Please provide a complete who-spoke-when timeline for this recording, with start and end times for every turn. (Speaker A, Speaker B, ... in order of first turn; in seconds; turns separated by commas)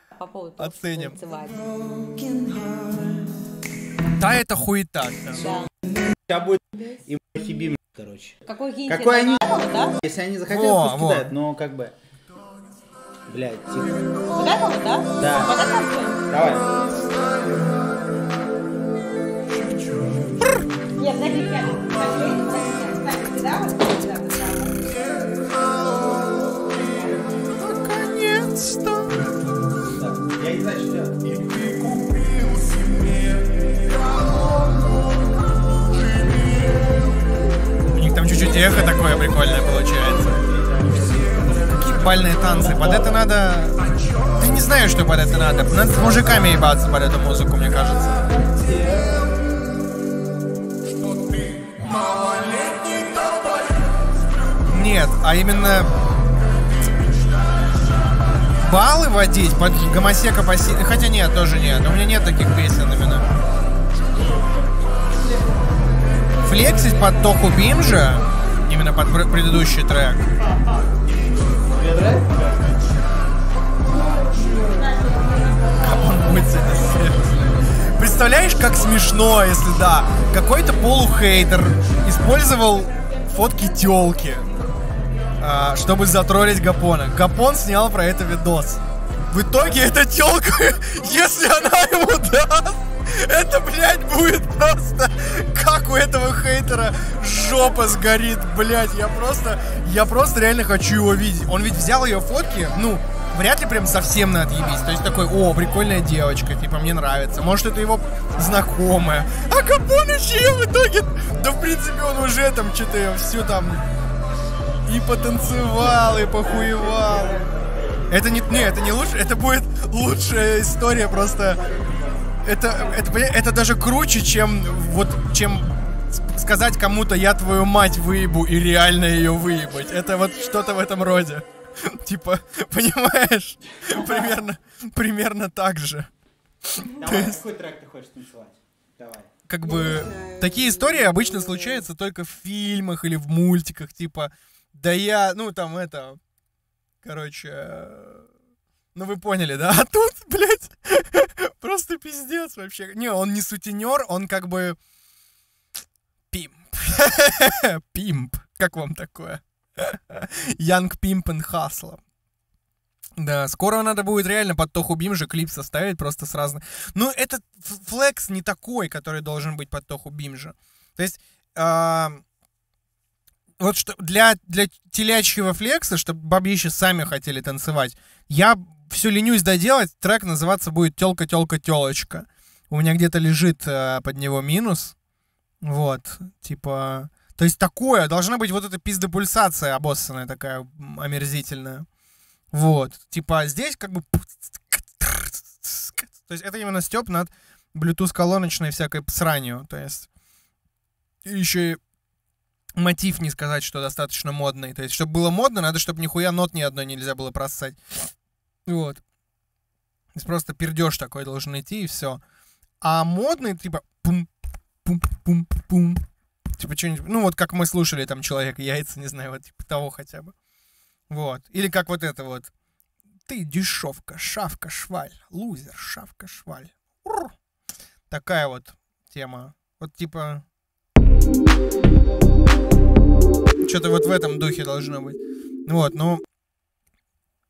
Speaker A: 0.2-1.6, Speaker B: 0.6-1.2, Speaker C: 2.0-3.0, Speaker B: 4.2-5.5, Speaker A: 5.3-5.7, Speaker C: 6.3-11.9, Speaker A: 8.5-10.0, Speaker B: 10.5-11.3, Speaker C: 13.3-14.0, Speaker A: 14.3-16.2, Speaker C: 15.2-15.6, Speaker C: 16.3-16.7, Speaker A: 20.9-25.1, Speaker A: 26.8-27.2, Speaker B: 27.4-29.3, Speaker C: 29.9-31.2, Speaker B: 37.9-40.4, Speaker C: 38.4-43.2, Speaker B: 41.8-43.8, Speaker B: 44.4-48.2, Speaker C: 48.5-49.2, Speaker B: 54.7-55.9, Speaker B: 58.6-63.3, Speaker B: 66.4-70.2, Speaker C: 71.8-72.3, Speaker B: 75.7-84.5, Speaker B: 85.4-113.8, Speaker B: 114.9-117.4, Speaker C: 116.3-118.1, Speaker B: 118.1-121.6, Speaker C: 121.5-122.4, Speaker B: 122.4-136.1, Speaker C: 133.8-134.4, Speaker B: 136.7-137.4, Speaker C: 136.9-139.3, Speaker B: 139.5-146.2, Speaker B: 147.0-148.3, Speaker B: 148.9-154.8, Speaker B: 156.3-162.0, Speaker B: 163.2-172.2, Speaker B: 173.6-185.0, Speaker B: 185.6-191.9, Speaker B: 192.5-200.1, Speaker B: 201.2-201.8, Speaker B: 202.8-208.1, Speaker B: 208.7-209.0, Speaker B: 210.2-212.2, Speaker B: 212.8-214.3, Speaker B: 214.8-216.0, Speaker B: 216.6-220.3, Speaker B: 221.1-222.5, Speaker B: 223.3-227.3, Speaker B: 228.1-230.4, Speaker B: 233.6-236.2